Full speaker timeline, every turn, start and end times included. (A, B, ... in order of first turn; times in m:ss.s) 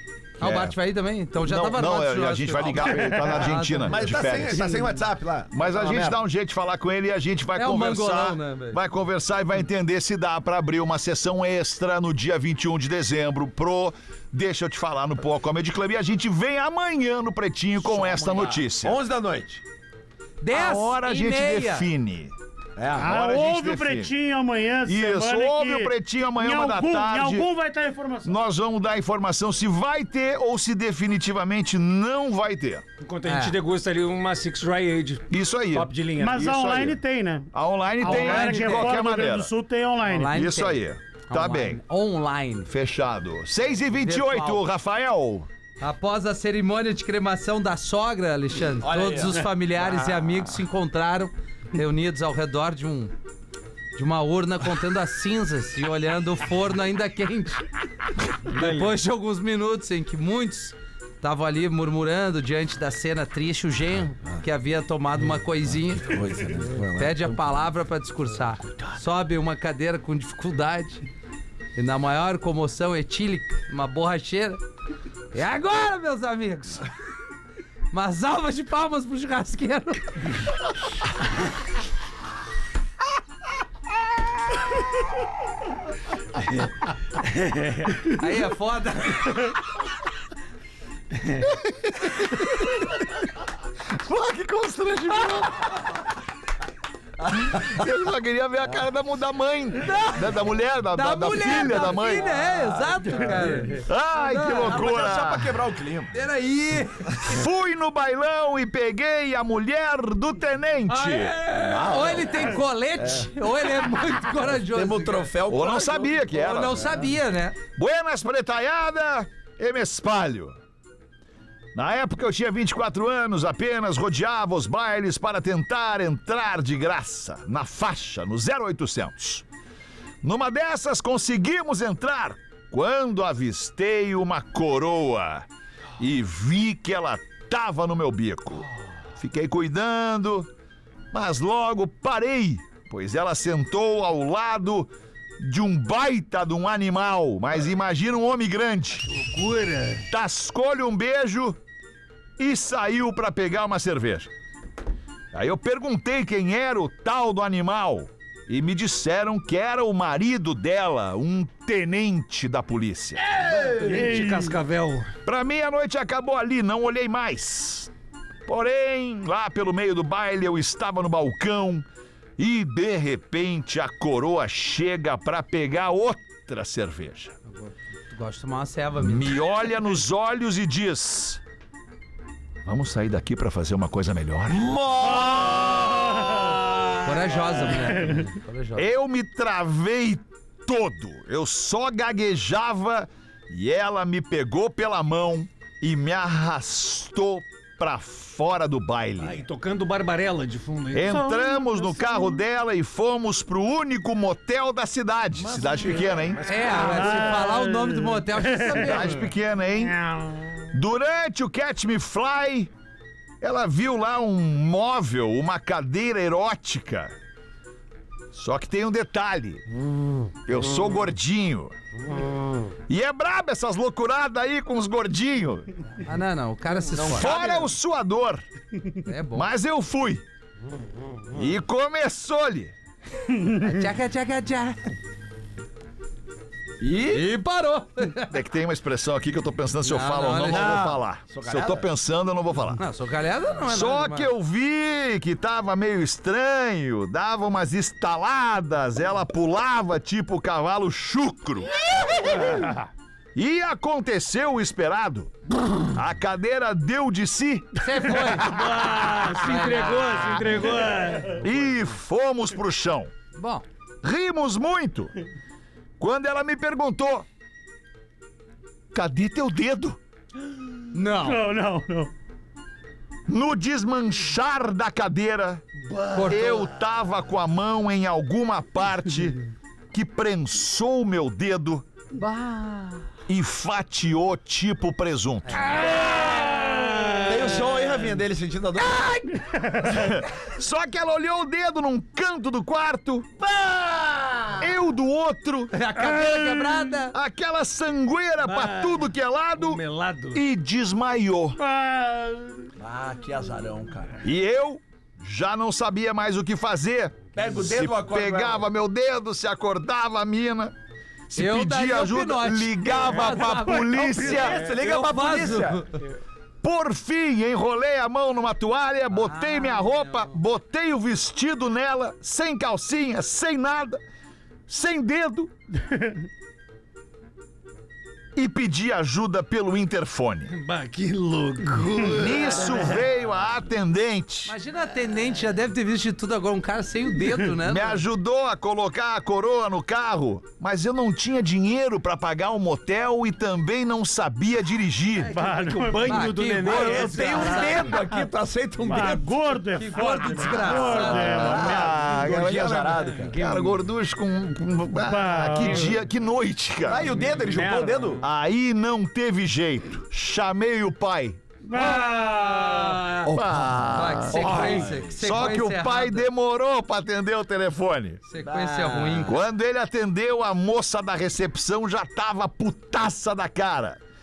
0:00.4-0:00.8 A
0:00.4-0:04.2 B
0:01.4-0:04.9 A
0:02.6-0:06.2 C
0:05.5-0:19.0 A
0:07.6-0:08.8 B
0:17.8-0:19.6 C
0:20.4-0:21.9 B
0:20.5-0:22.3 A
0:22.8-0:23.1 C
0:23.0-0:24.1 A
0:23.0-0:28.4 D
0:24.8-0:27.5 A
0:28.2-0:32.8 A
0:33.0-0:36.5 E
0:33.2-0:33.6 B
0:35.3-0:37.0 A
0:36.2-0:40.4 D
0:37.5-0:39.5 A
0:38.0-0:38.9 B
0:40.0-0:42.7 B
0:40.3-0:41.8 A
0:42.7-0:45.5 A
0:44.0-0:44.6 B
0:45.8-0:53.1 B
0:48.8-0:50.5 C
0:54.0-0:57.6 B
0:58.5-1:06.2 B
0:58.5-0:58.9 E
1:06.0-1:07.3 C
1:06.8-1:11.0 B
1:11.8-1:14.6 B
1:15.3-1:16.9 B
1:17.9-1:20.1 B
1:27.4-1:27.7 E
1:28.0-1:29.6 B
1:31.5-1:32.9 A
1:33.9-1:35.8 A
1:37.3-1:42.3 A
1:39.8-1:40.2 B
1:40.9-1:44.8 B
1:41.6-1:43.7 C
1:43.8-1:45.5 A
1:44.6-1:46.1 C
1:46.1-1:47.3 B
1:47.2-1:51.4 A
1:51.5-1:55.3 B
1:51.5-1:53.3 C
1:54.4-1:57.1 C
1:55.5-1:57.0 A
1:56.4-1:57.6 B
1:57.7-2:00.6 A
2:01.8-2:09.5 A
2:10.2-2:15.5 A
2:16.0-2:20.5 A
2:21.1-2:29.1 A
2:29.1-2:30.1 E
2:30.1-2:31.6 A
2:32.4-2:34.3 A
2:35.3-2:43.3 A
2:43.3-2:44.1 C
2:43.3-2:45.1 E
2:43.8-2:44.6 D
2:45.2-2:47.9 A
2:48.5-2:51.9 A
2:52.4-2:57.4 A
2:57.5-2:59.4 B
2:59.0-3:01.4 A
3:02.6-3:04.7 A
3:04.5-3:07.7 C
3:07.0-3:08.9 B
3:08.8-3:19.4 A
3:19.2-3:21.2 E
3:20.9-3:26.6 A
3:21.1-3:22.4 D
3:25.4-3:27.5 C
3:26.4-3:29.3 B
3:26.7-3:28.9 D
3:28.7-3:30.0 A
3:30.7-3:32.7 A
3:33.4-3:37.1 A
3:38.3-3:39.6 A
3:40.4-3:41.8 A
3:42.9-3:45.7 A
3:46.0-3:47.4 B
3:46.8-3:47.7 C
3:47.1-3:48.4 A
3:49.1-3:49.5 B
3:49.3-3:50.2 A
3:51.3-3:52.7 A
3:53.4-3:53.6 D
3:53.5-3:54.9 B
3:56.8-3:57.3 C
3:57.1-3:58.4 B
3:58.3-4:02.8 A
3:59.8-4:00.9 B
4:00.5-4:01.9 C
4:02.8-4:04.3 B
4:03.7-4:12.7 A
4:13.4-4:18.4 A
4:17.8-4:18.6 B
4:18.4-4:21.5 E
4:19.4-4:19.9 B
4:21.4-4:23.1 A
4:23.4-4:23.6 B
4:24.0-4:25.1 A
4:26.0-4:27.3 A
4:28.9-4:30.0 A
4:30.9-4:31.4 B
4:31.2-4:32.1 D
4:33.3-4:35.6 A
4:35.9-4:36.4 E
4:36.1-4:36.7 B
4:36.3-4:39.4 A
4:39.9-4:41.9 A
4:42.1-4:43.1 B
4:43.3-4:45.7 A
4:45.5-4:46.7 B
4:46.0-4:47.2 E
4:47.2-4:49.2 C
4:48.8-4:49.4 B
4:49.4-4:49.9 D
4:49.8-4:53.3 A
4:53.4-4:54.7 C
4:54.6-4:55.8 A
4:55.7-4:57.2 B
4:57.1-4:59.8 A
4:58.4-5:00.4 E
5:00.3-5:01.6 A
5:01.6-5:02.7 D
5:02.8-5:04.2 C
5:04.2-5:10.8 A
5:07.4-5:08.6 C
5:11.3-5:14.6 A
5:11.4-5:15.9 B
5:13.7-5:14.2 D
5:14.2-5:15.9 C
5:14.3-5:14.8 E
5:16.6-5:24.0 A
5:19.1-5:20.3 B
5:24.7-5:25.5 A
5:25.8-5:26.2 D
5:28.4-5:30.5 A
5:30.5-5:33.0 E
5:32.1-5:34.6 A
5:34.5-5:38.0 B
5:37.6-5:45.3 A
5:45.2-5:47.9 E
5:45.3-5:46.3 D
5:46.1-5:47.9 B
5:46.6-5:49.4 C
5:48.9-5:52.0 D
5:49.8-5:51.7 B
5:50.2-5:53.4 C
5:51.0-5:57.1 A
5:55.0-5:56.0 D
5:56.8-5:58.2 C
5:57.1-5:58.2 E
5:58.2-6:01.4 A
6:01.7-6:03.0 D
6:01.8-6:03.3 E
6:03.2-6:08.2 A
6:03.4-6:05.2 C
6:03.9-6:06.3 B
6:04.4-6:04.9 E
6:08.3-6:09.4 B
6:08.4-6:09.4 C
6:09.3-6:14.0 A